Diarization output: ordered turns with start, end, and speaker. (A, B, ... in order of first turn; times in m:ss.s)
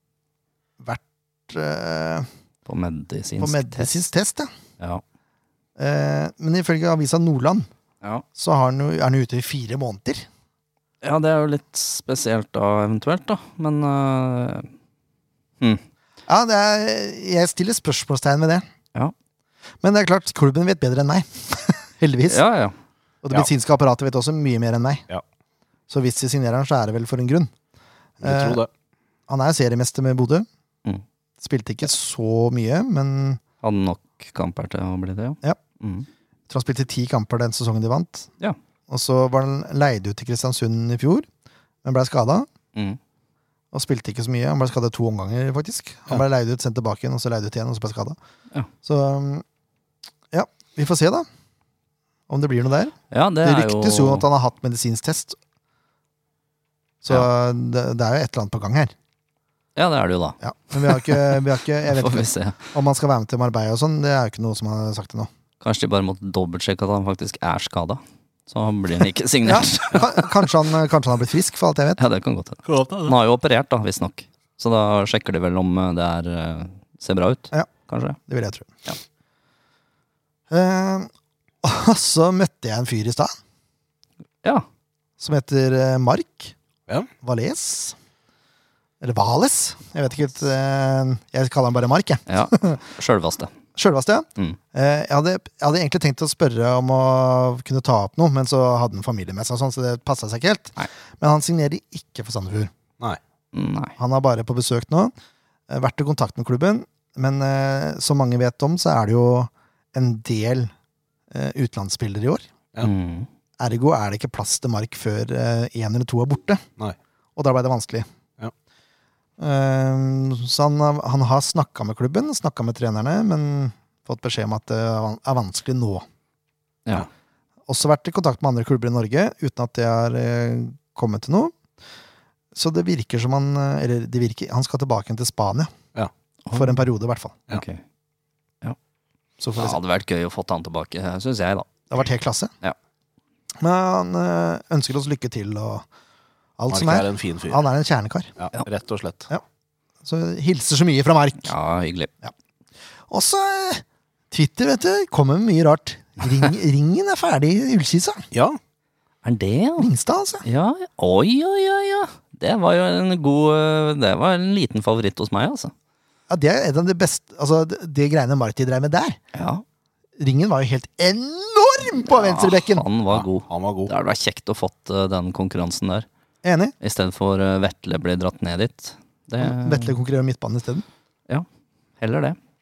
0:00.8-0:02.3 A
0:02.7-0:04.0 B
0:03.4-0:04.5 A
0:05.8-0:07.7 A
0:08.4-0:10.3 A
0:11.0-0:14.7 B
0:16.3-0:18.6 A
0:19.8-0:22.4 A
0:22.3-0:22.8 B
0:23.2-0:25.0 A
0:25.9-0:27.5 A
0:28.2-0:28.7 C
0:28.2-0:28.6 A
0:29.3-0:30.5 A
0:31.4-0:33.4 A
0:33.6-0:36.1 B
0:36.5-0:38.3 A
0:38.9-0:41.3 A
0:41.8-0:42.5 A
0:43.7-0:48.2 A
0:48.8-0:49.4 A
0:50.3-0:51.3 A
0:52.3-0:55.4 A
0:53.1-0:54.2 B
0:57.0-0:58.9 A
0:59.8-1:02.7 B
1:00.4-1:05.3 A
1:05.6-1:10.5 B
1:09.4-1:12.0 A
1:12.0-1:18.2 B
1:12.7-1:13.2 C
1:18.3-1:18.8 A
1:20.5-1:21.1 A
1:21.6-1:23.4 A
1:25.2-1:26.5 A
1:27.2-1:28.0 A
1:29.0-1:32.8 A
1:32.3-1:33.5 B
1:33.8-1:42.7 A
1:43.5-1:43.9 B
1:44.0-1:45.1 A
1:45.7-1:50.7 A
1:51.3-1:52.4 A
1:52.8-1:53.3 B
1:53.6-1:56.6 A
1:57.4-1:58.1 A
1:59.4-2:06.0 A
2:07.7-2:11.5 A
2:12.6-2:15.7 A
2:16.5-2:16.8 B
2:16.5-2:17.4 A
2:17.5-2:17.8 B
2:19.4-2:19.8 A
2:19.6-2:21.7 B
2:21.9-2:22.5 A
2:23.6-2:25.9 A
2:26.6-2:28.3 A
2:26.7-2:27.6 C
2:28.4-2:29.3 C
2:30.0-2:31.5 A
2:31.4-2:32.1 B
2:33.1-2:38.2 A
2:38.3-2:38.6 C
2:39.2-2:39.9 B
2:39.8-2:40.4 A
2:40.4-2:45.7 B
2:46.3-2:49.2 A
2:49.3-2:49.6 B
2:50.2-2:52.8 A
2:52.1-2:56.1 B
2:53.1-2:53.9 C
2:56.4-2:56.8 A
2:56.8-3:00.0 B
2:59.4-3:00.8 A
3:02.0-3:02.4 B